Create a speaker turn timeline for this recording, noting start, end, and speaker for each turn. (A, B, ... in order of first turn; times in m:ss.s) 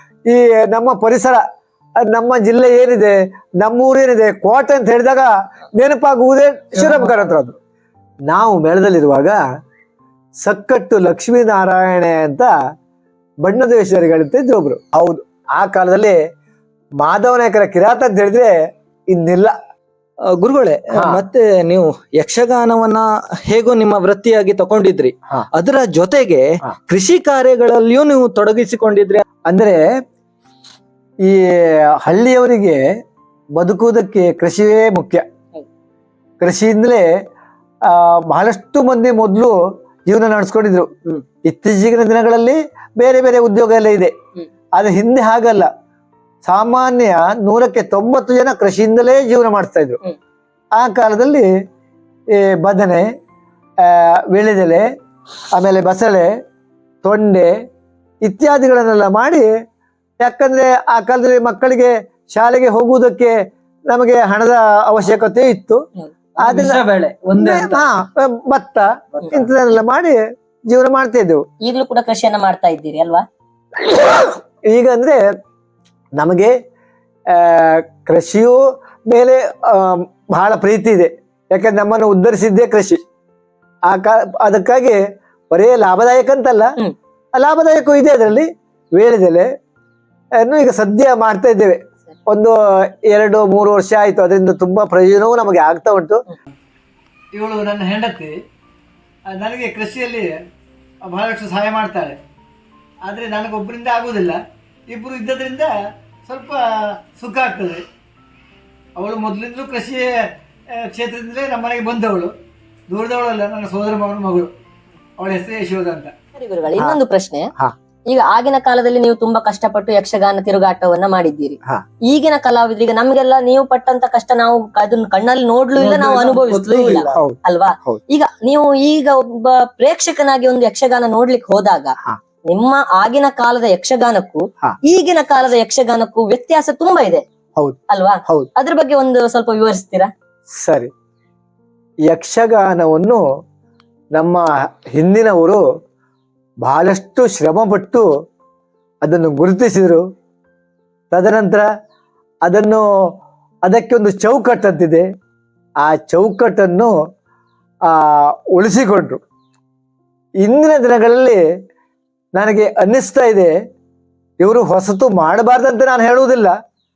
0:00.3-0:01.4 A
0:02.1-0:07.6 A
0:06.8-0:07.5 B
0:08.3-0:09.4 A
0:10.4-0:12.5 A
0:13.4-0:16.2 A
0:17.0-0:18.6 A
0:19.1-0:19.6 A
0:20.4-0:29.2 B
0:20.9-0:21.2 A
0:29.5-0:29.8 A
0:31.2-0:32.8 A
0:33.6-0:35.2 A
0:36.4-0:37.1 A
0:37.8-0:44.1 A
0:44.8-0:45.7 A
0:46.4-0:50.0 A
0:50.7-0:51.5 A
0:52.3-0:53.1 A
0:53.8-0:54.9 A
0:55.5-0:56.3 A
0:57.0-0:57.5 A
0:58.2-0:59.5 A
1:00.2-1:05.8 A
1:06.4-1:06.8 A
1:06.4-1:07.8 B
1:07.4-1:11.4 A
1:09.1-1:09.5 B
1:11.6-1:13.2 C
1:13.8-1:15.2 A
1:16.2-1:16.5 A
1:17.3-1:23.0 A
1:23.9-1:26.7 A
1:27.4-1:29.5 A
1:30.4-1:36.2 A
1:37.3-1:38.4 A
1:39.3-1:40.4 A
1:41.0-1:42.2 A
1:43.0-1:47.8 A
1:49.0-1:52.3 A
1:52.9-1:54.5 A
1:55.2-1:56.1 A
1:56.4-1:57.5 C
1:58.1-2:12.0 C
2:05.8-2:07.2 B
2:07.1-2:08.0 A
2:12.5-2:17.2 C
2:17.6-2:18.5 A
2:17.9-2:20.1 C
2:20.6-2:20.9 A
2:22.1-2:23.2 A
2:24.2-2:25.6 A
2:26.6-2:28.1 A
2:29.0-2:30.0 A
2:31.1-2:31.7 A
2:32.4-2:32.8 A
2:33.6-2:35.1 A
2:35.8-2:36.9 A
2:37.9-2:39.2 A
2:40.4-2:41.4 A
2:42.4-2:43.5 A
2:44.4-2:46.5 A